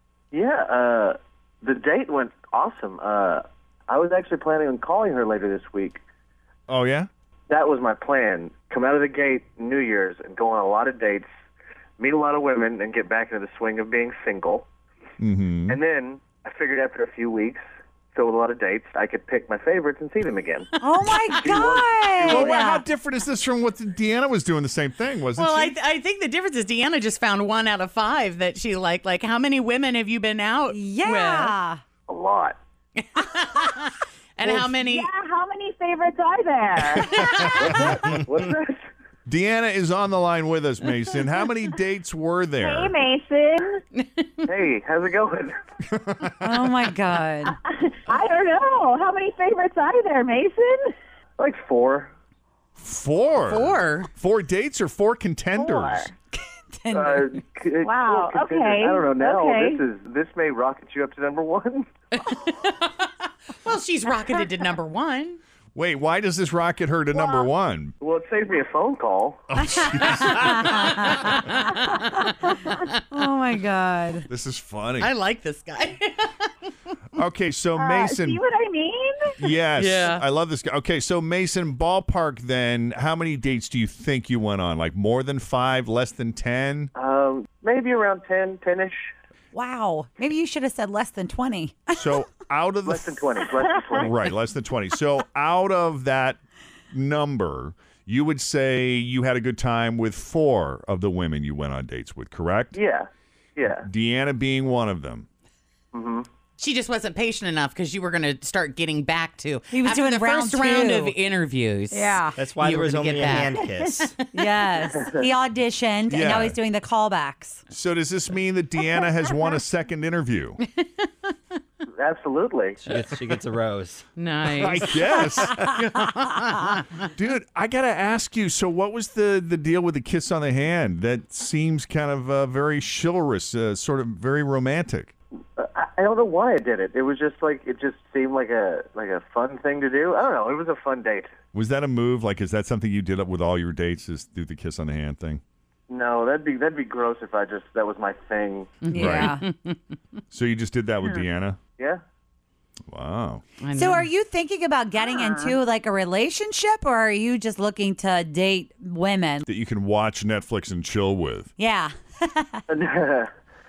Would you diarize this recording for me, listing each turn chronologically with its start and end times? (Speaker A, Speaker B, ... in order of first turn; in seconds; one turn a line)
Speaker A: 0.3-6.0
Speaker B: 6.7-7.1
Speaker A: 7.5-11.3
Speaker A: 12.0-14.7
Speaker B: 15.2-15.8
Speaker A: 15.7-17.6
Speaker A: 18.1-20.7
Speaker C: 20.8-22.9
Speaker A: 21.3-22.5
Speaker B: 22.2-25.8
Speaker D: 25.4-31.5
Speaker C: 30.7-31.8
Speaker A: 32.1-32.6
Speaker D: 33.0-35.1
Speaker E: 34.8-37.2
Speaker D: 37.1-37.5
Speaker B: 37.2-38.1
Speaker A: 37.3-38.9
Speaker B: 39.3-43.0
Speaker E: 42.6-43.8
Speaker D: 44.0-44.5
Speaker A: 44.5-45.6
Speaker B: 46.0-46.7
Speaker C: 46.4-47.6
Speaker E: 47.5-50.9
Speaker A: 51.4-52.1
Speaker B: 52.8-56.1
Speaker D: 53.4-54.1
Speaker C: 56.7-57.4
Speaker A: 56.9-61.9
Speaker E: 57.8-59.8
Speaker D: 62.1-65.4
Speaker B: 65.8-68.0
Speaker A: 68.0-69.4
Speaker B: 69.5-71.3
Speaker C: 69.7-74.3
Speaker D: 70.0-72.3
Speaker B: 74.3-75.1
Speaker D: 75.0-76.5
Speaker B: 77.2-78.4
Speaker E: 77.8-79.3
Speaker B: 79.4-86.9
Speaker D: 79.8-80.2
Speaker A: 87.0-89.1
Speaker C: 89.5-92.0
Speaker B: 91.9-93.3
Speaker A: 92.9-94.1
Speaker B: 93.9-96.4
Speaker B: 96.9-102.8
Speaker A: 102.7-103.9
Speaker B: 103.8-105.3
Speaker A: 105.9-106.3
Speaker D: 106.6-114.2
Speaker C: 109.7-111.2
Speaker C: 111.9-112.4
Speaker F: 112.4-114.2
Speaker C: 114.3-117.7
Speaker A: 115.0-115.2
Speaker B: 116.1-116.6
Speaker B: 117.7-120.6
Speaker D: 120.7-121.3
Speaker A: 122.0-122.8
Speaker F: 122.8-124.0
Speaker D: 124.2-125.3
Speaker B: 124.5-126.1
Speaker D: 126.0-126.8
Speaker B: 127.1-135.1
Speaker A: 135.6-141.3
Speaker B: 141.5-145.4
Speaker A: 145.9-148.8
Speaker D: 148.8-149.8
Speaker C: 148.9-149.4
Speaker B: 148.9-149.3
Speaker B: 150.3-151.6
Speaker B: 152.9-153.4
Speaker D: 153.6-154.1
Speaker C: 153.7-159.4
Speaker E: 155.0-155.6
Speaker B: 159.5-161.5
Speaker C: 161.6-162.6
Speaker A: 162.7-163.3